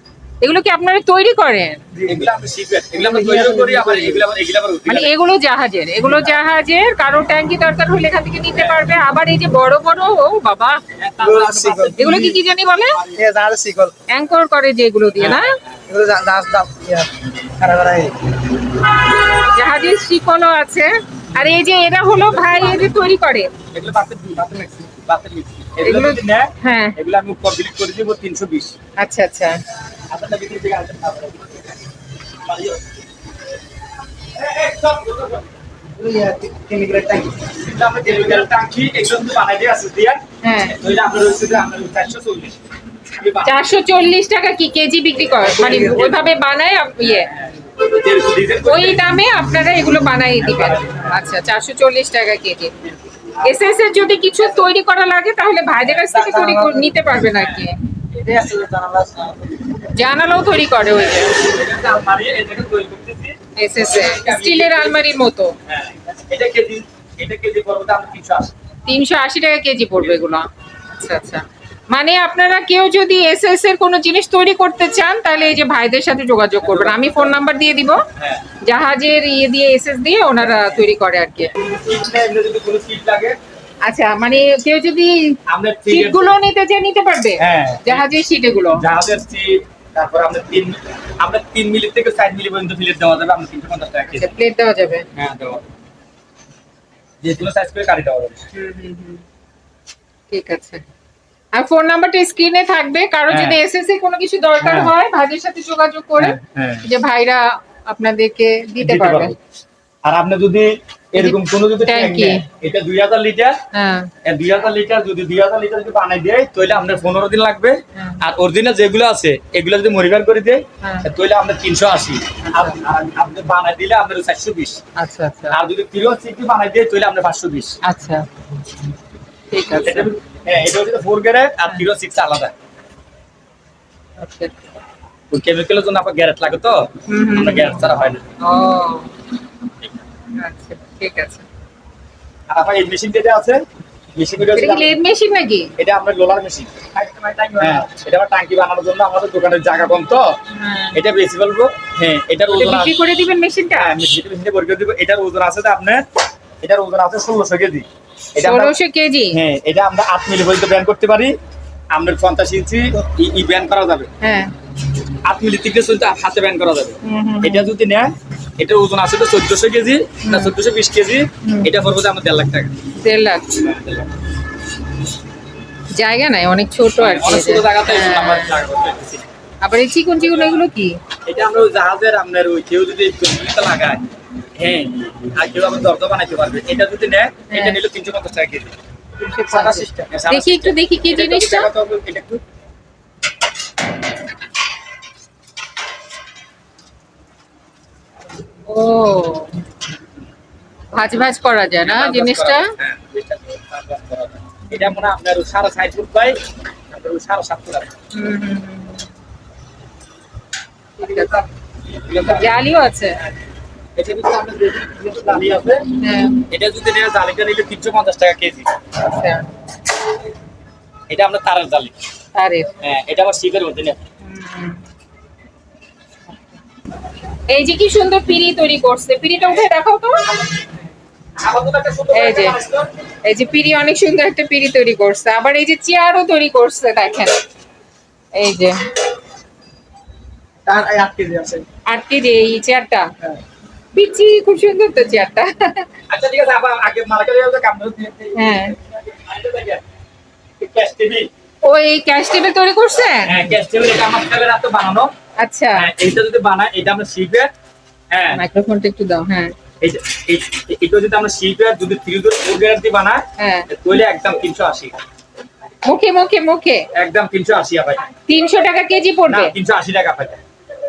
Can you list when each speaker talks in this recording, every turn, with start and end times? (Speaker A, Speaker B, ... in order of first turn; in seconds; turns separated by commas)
Speaker A: 0.4-1.8, Speaker B: 1.9-2.3, Speaker C: 2.0-5.1, Speaker B: 3.0-4.3, Speaker A: 4.9-10.8, Speaker C: 8.5-8.9, Speaker C: 11.0-13.3, Speaker B: 11.2-11.9, Speaker A: 12.0-13.0, Speaker B: 13.1-13.9, Speaker A: 14.1-15.5, Speaker C: 15.2-15.6, Speaker B: 15.9-18.4, Speaker A: 19.4-23.5, Speaker C: 22.2-22.8, Speaker C: 23.7-28.8, Speaker A: 25.8-26.9, Speaker A: 29.0-29.6, Speaker C: 30.1-31.8, Speaker C: 32.4-33.0, Speaker C: 34.4-35.5, Speaker B: 36.0-37.5, Speaker C: 37.5-42.6, Speaker B: 38.1-38.4, Speaker A: 40.4-40.8, Speaker C: 43.1-43.6, Speaker A: 43.4-47.3, Speaker C: 45.4-46.3, Speaker B: 45.7-46.0, Speaker C: 47.0-49.0, Speaker A: 48.6-52.8, Speaker C: 50.4-51.2, Speaker A: 53.4-57.8, Speaker C: 55.8-59.4, Speaker A: 59.9-61.4, Speaker C: 61.2-65.1, Speaker A: 63.6-65.6, Speaker C: 65.7-68.5, Speaker A: 68.9-78.0, Speaker C: 76.6-77.4, Speaker C: 78.2-78.5, Speaker A: 78.6-81.5, Speaker C: 80.4-80.8, Speaker C: 81.5-83.4, Speaker A: 83.8-88.8, Speaker C: 85.5-86.4, Speaker C: 87.4-88.1, Speaker C: 88.7-94.3, Speaker A: 94.1-95.1, Speaker C: 95.2-95.6, Speaker C: 97.2-98.5, Speaker A: 98.5-99.2, Speaker A: 100.3-100.8, Speaker A: 101.5-109.3, Speaker C: 103.3-103.6, Speaker C: 104.6-104.9, Speaker C: 106.2-106.9, Speaker C: 108.8-109.4, Speaker C: 110.0-113.6, Speaker A: 111.2-112.5, Speaker A: 113.7-114.1, Speaker C: 114.2-124.8, Speaker A: 120.8-121.1, Speaker A: 122.5-122.8, Speaker A: 125.0-125.6, Speaker C: 125.5-127.8, Speaker A: 127.8-128.3, Speaker A: 129.5-130.1, Speaker C: 129.8-132.5, Speaker A: 134.2-134.5, Speaker C: 135.3-138.3, Speaker A: 137.1-137.8, Speaker A: 138.4-139.1, Speaker A: 140.4-141.4, Speaker C: 142.5-143.6, Speaker C: 144.2-144.9, Speaker A: 144.6-145.7, Speaker C: 145.8-150.3, Speaker A: 150.5-151.0, Speaker C: 150.9-152.9, Speaker A: 152.5-153.9, Speaker C: 153.7-156.0, Speaker C: 156.6-158.7, Speaker A: 158.4-159.4, Speaker C: 159.3-161.4, Speaker C: 161.9-164.1, Speaker A: 164.2-164.5, Speaker C: 165.2-172.8, Speaker A: 167.0-167.7, Speaker A: 170.2-170.6, Speaker A: 171.4-171.7, Speaker A: 173.0-173.6, Speaker C: 173.6-174.1, Speaker A: 175.9-178.6, Speaker C: 177.0-179.3, Speaker A: 179.6-181.0, Speaker C: 180.2-180.5, Speaker C: 181.2-184.0, Speaker C: 184.6-188.7, Speaker A: 187.5-187.8, Speaker A: 189.2-191.7, Speaker C: 189.5-192.4, Speaker A: 198.7-199.5, Speaker A: 200.9-202.7, Speaker C: 201.8-207.9, Speaker A: 204.7-205.0, Speaker A: 208.1-209.1, Speaker A: 211.0-211.4, Speaker C: 211.9-212.6, Speaker A: 212.2-213.2, Speaker C: 214.0-215.9, Speaker A: 216.0-216.4, Speaker C: 216.5-218.7, Speaker A: 219.0-219.5, Speaker C: 221.1-221.9, Speaker A: 222.3-222.7, Speaker C: 222.8-224.0, Speaker A: 224.2-224.8, Speaker A: 227.5-230.3, Speaker C: 231.4-232.9, Speaker A: 232.1-232.6, Speaker A: 233.2-237.4, Speaker A: 238.3-238.8, Speaker B: 240.7-241.7, Speaker A: 241.9-243.1, Speaker A: 243.9-245.9, Speaker C: 246.1-249.8, Speaker A: 248.3-248.8, Speaker C: 250.6-251.3, Speaker A: 251.6-253.4, Speaker C: 253.2-255.1, Speaker A: 255.4-255.9, Speaker C: 255.8-257.5, Speaker C: 258.1-258.4, Speaker A: 258.3-259.6, Speaker C: 259.8-265.0, Speaker A: 263.4-263.7, Speaker A: 265.8-266.9, Speaker C: 266.9-268.1, Speaker A: 268.3-269.5, Speaker C: 269.3-270.4